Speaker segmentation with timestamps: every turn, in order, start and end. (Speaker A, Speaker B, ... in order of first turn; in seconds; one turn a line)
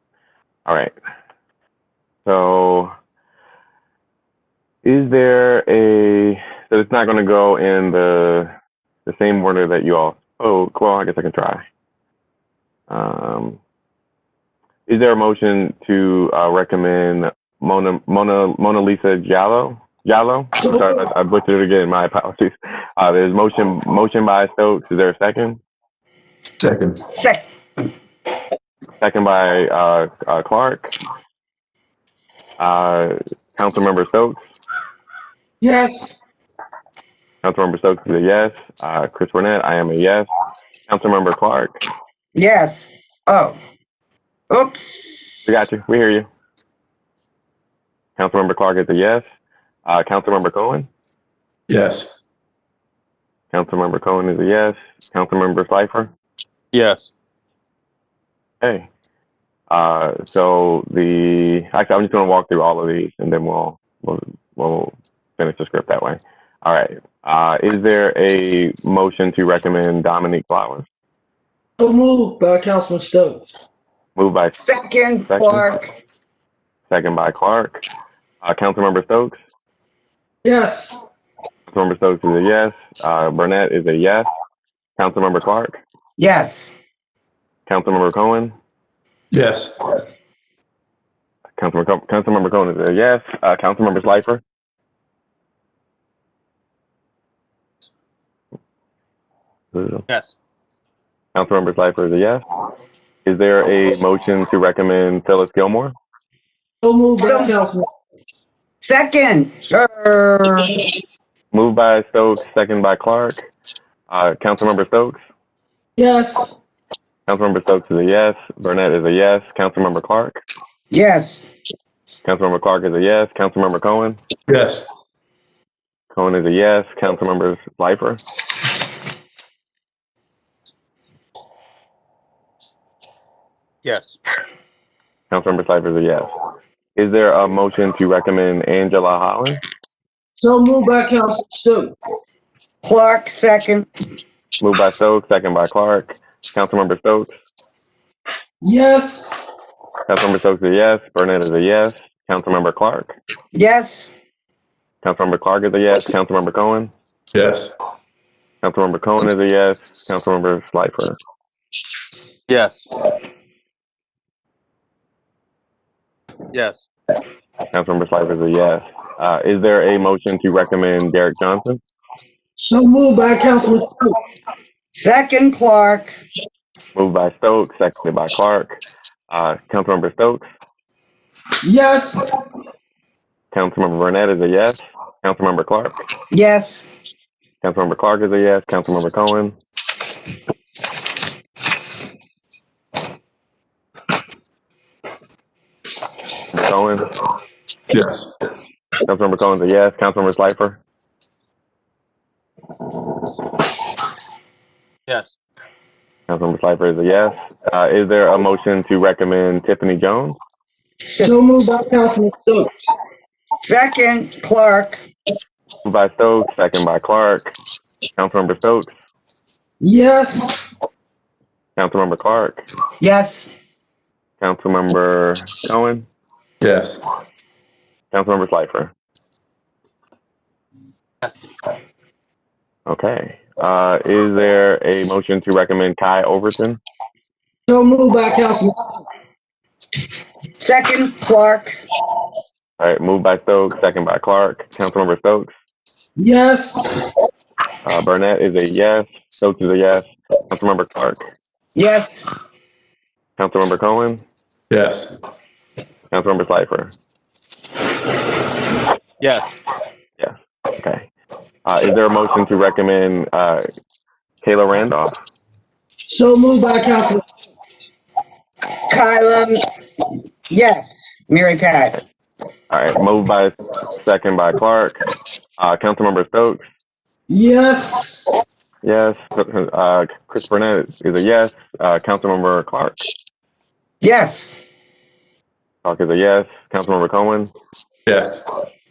Speaker A: 0.7-0.9
Speaker A: 2.3-2.9
Speaker A: 4.8-8.5
Speaker A: 9.1-11.6
Speaker A: 12.9-13.6
Speaker A: 14.9-25.6
Speaker B: 20.6-20.9
Speaker C: 26.6-27.0
Speaker D: 27.1-27.4
Speaker A: 29.0-30.9
Speaker A: 32.6-34.4
Speaker B: 35.6-36.1
Speaker A: 37.4-40.3
Speaker A: 40.9-41.8
Speaker D: 42.3-43.5
Speaker D: 44.5-45.5
Speaker A: 45.5-46.3
Speaker A: 48.2-49.2
Speaker A: 49.9-50.9
Speaker C: 51.7-52.2
Speaker A: 53.5-56.1
Speaker E: 56.7-57.1
Speaker A: 58.6-58.9
Speaker A: 59.7-70.8
Speaker B: 71.8-73.4
Speaker A: 74.2-74.6
Speaker D: 74.5-75.9
Speaker A: 75.3-75.6
Speaker A: 76.9-77.8
Speaker A: 78.4-79.4
Speaker B: 80.4-81.0
Speaker A: 81.7-84.3
Speaker A: 85.0-85.8
Speaker D: 86.2-86.7
Speaker A: 87.7-88.5
Speaker C: 89.3-89.8
Speaker A: 91.6-94.4
Speaker A: 99.7-100.0
Speaker E: 100.1-100.3
Speaker A: 101.3-102.4
Speaker A: 103.2-105.9
Speaker B: 106.8-107.8
Speaker D: 107.2-107.5
Speaker D: 108.8-110.7
Speaker A: 111.5-113.5
Speaker A: 114.1-115.2
Speaker B: 116.0-116.5
Speaker A: 117.3-120.4
Speaker D: 120.9-121.4
Speaker A: 122.2-124.2
Speaker C: 124.5-124.9
Speaker A: 126.1-128.2
Speaker E: 133.8-134.2
Speaker A: 135.3-136.3
Speaker A: 137.0-139.6
Speaker B: 140.4-141.9
Speaker D: 142.8-143.9
Speaker A: 144.6-147.3
Speaker B: 148.6-149.3
Speaker A: 150.1-153.2
Speaker D: 153.5-154.1
Speaker A: 155.0-156.9
Speaker C: 157.3-157.7
Speaker A: 158.6-161.2
Speaker E: 162.5-162.9
Speaker E: 166.5-166.9
Speaker A: 167.7-171.8
Speaker B: 172.6-174.2
Speaker D: 175.0-176.1
Speaker A: 177.0-178.8
Speaker A: 179.3-180.5
Speaker B: 181.6-182.3
Speaker A: 183.5-186.0
Speaker D: 186.3-186.9
Speaker A: 187.6-189.6
Speaker A: 196.5-197.1
Speaker C: 197.9-198.3
Speaker A: 199.0-200.8
Speaker E: 205.1-205.4
Speaker A: 206.3-210.4
Speaker D: 211.1-211.4
Speaker B: 211.2-212.7
Speaker D: 213.6-215.0
Speaker A: 215.8-217.5
Speaker A: 218.2-218.9
Speaker B: 219.8-220.6
Speaker A: 221.8-222.7
Speaker D: 223.0-223.5
Speaker A: 224.4-226.1
Speaker C: 226.6-227.0
Speaker A: 228.1-228.9
Speaker A: 232.9-236.8
Speaker B: 237.7-239.0
Speaker D: 240.6-241.8
Speaker A: 242.8-245.5
Speaker B: 246.2-247.0
Speaker A: 247.8-251.3
Speaker D: 251.8-252.2
Speaker A: 253.4-254.2
Speaker C: 254.7-255.1
Speaker A: 256.1-256.9
Speaker E: 259.2-259.5
Speaker A: 260.2-261.1
Speaker A: 261.7-263.6
Speaker A: 264.4-265.2
Speaker B: 266.1-267.2
Speaker D: 268.9-269.6
Speaker D: 270.5-272.0
Speaker A: 272.7-275.0
Speaker A: 275.6-276.6
Speaker B: 277.3-278.4
Speaker A: 278.8-283.0
Speaker D: 284.0-284.5
Speaker A: 285.8-287.5
Speaker C: 288.1-288.4